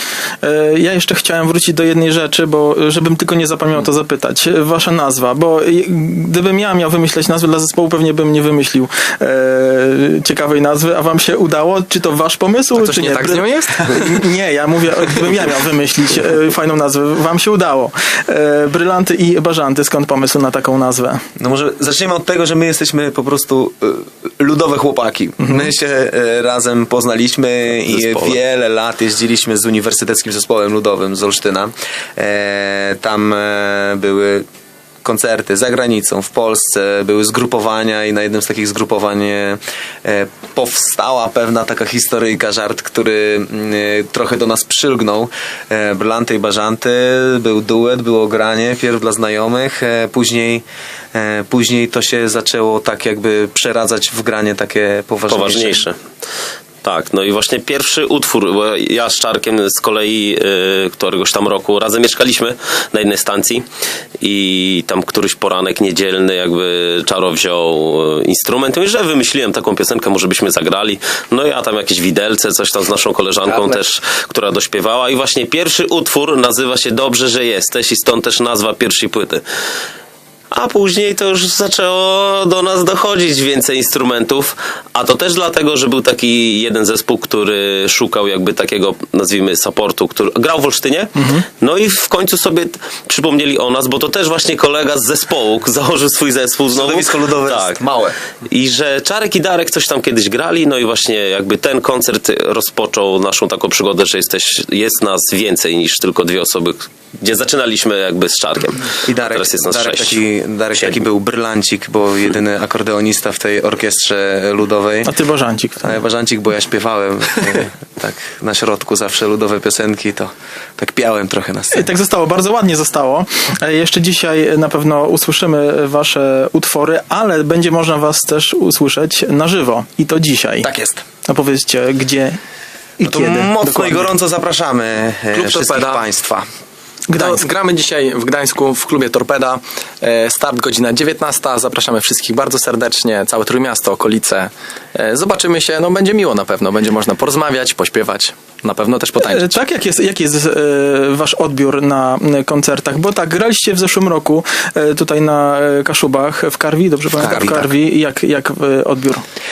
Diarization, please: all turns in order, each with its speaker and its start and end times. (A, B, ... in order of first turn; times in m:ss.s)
0:00.4-0:21.2 A
0:12.8-0:14.2 B
0:21.4-0:34.4 C
0:27.9-0:28.4 B
0:35.0-0:55.9 C
0:55.3-0:56.0 D
0:56.8-1:03.6 D
1:04.2-1:19.4 D
1:13.4-1:13.8 C
1:20.5-1:37.8 D
1:31.2-1:31.4 A
1:36.7-1:38.2 C
1:38.5-1:50.2 D
1:49.0-1:55.1 C
1:55.0-1:56.0 A
1:55.8-2:01.9 C
2:01.7-2:10.7 A
2:10.6-2:11.0 C
2:11.2-2:12.4 A
2:13.0-2:14.1 A
2:13.0-2:16.4 C
2:15.3-2:16.0 B
2:17.1-2:17.5 A
2:17.1-2:29.6 B
2:29.2-2:39.2 A
2:37.1-2:37.7 C